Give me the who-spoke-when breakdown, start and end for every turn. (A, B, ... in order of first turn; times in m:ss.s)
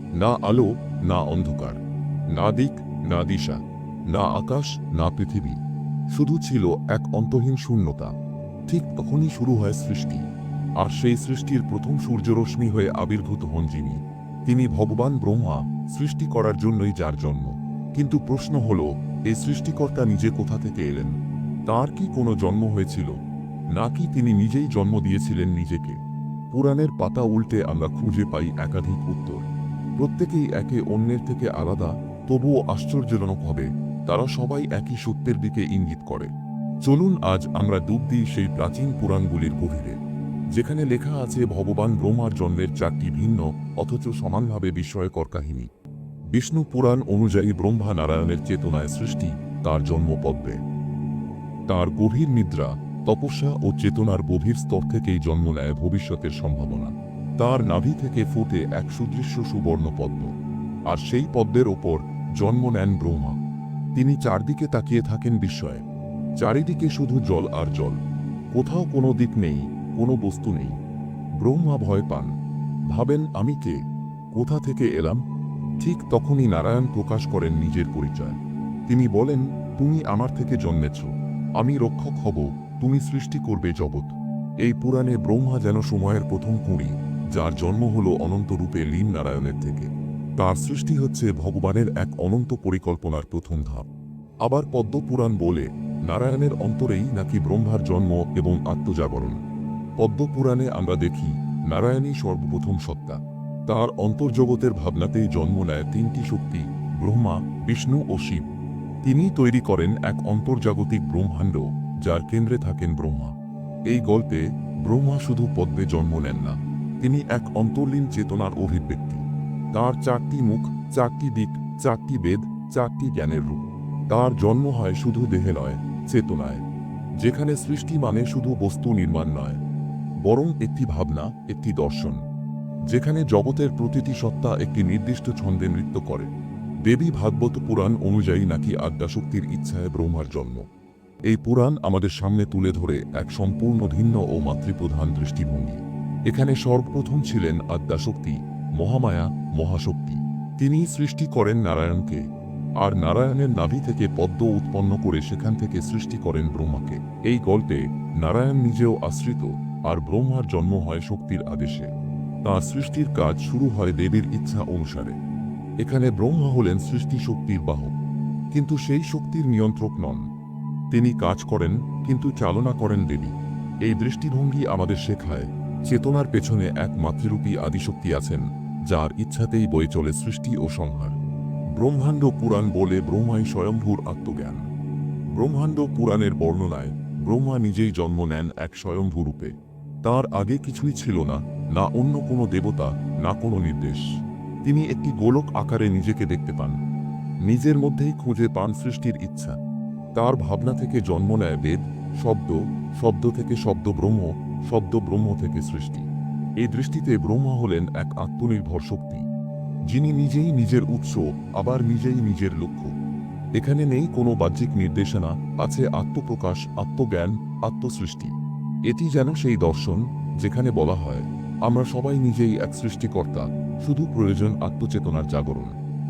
0:00.2-0:01.8 A
0:02.3-0:05.6 A
0:06.1-0:08.1 A
0:08.7-0:10.2 A
0:10.8-0:21.2 A
0:21.7-0:23.1 A
0:23.7-0:26.0 A
0:26.5-0:29.5 A
0:30.0-0:36.3 A
0:36.8-0:40.0 A
0:40.5-0:45.7 A
0:46.3-0:50.6 A
0:51.7-1:00.3 A
1:00.9-1:03.4 A
1:04.0-1:05.8 A
1:06.4-1:08.0 A
1:08.5-1:10.8 A
1:11.4-1:12.3 A
1:12.9-1:13.8 A
1:14.3-1:15.2 A
1:15.8-1:33.9 A
1:34.4-1:39.4 A
1:40.0-1:48.5 A
1:49.0-1:53.4 A
1:53.9-2:06.6 A
2:07.2-2:09.6 A
2:10.2-2:12.2 A
2:12.9-2:16.3 A
2:16.9-2:20.6 A
2:21.3-2:32.3 A
2:32.8-2:41.9 A
2:42.4-2:45.2 A
2:45.8-2:47.9 A
2:48.5-2:50.3 A
2:50.9-2:53.3 A
2:53.8-3:01.2 A
3:01.8-3:04.7 A
3:05.3-3:14.1 A
3:14.6-3:16.8 A
3:17.4-3:19.6 A
3:20.2-3:26.1 A
3:26.6-3:29.2 A
3:29.9-3:32.9 A
3:33.6-3:38.4 A
3:38.9-3:45.7 A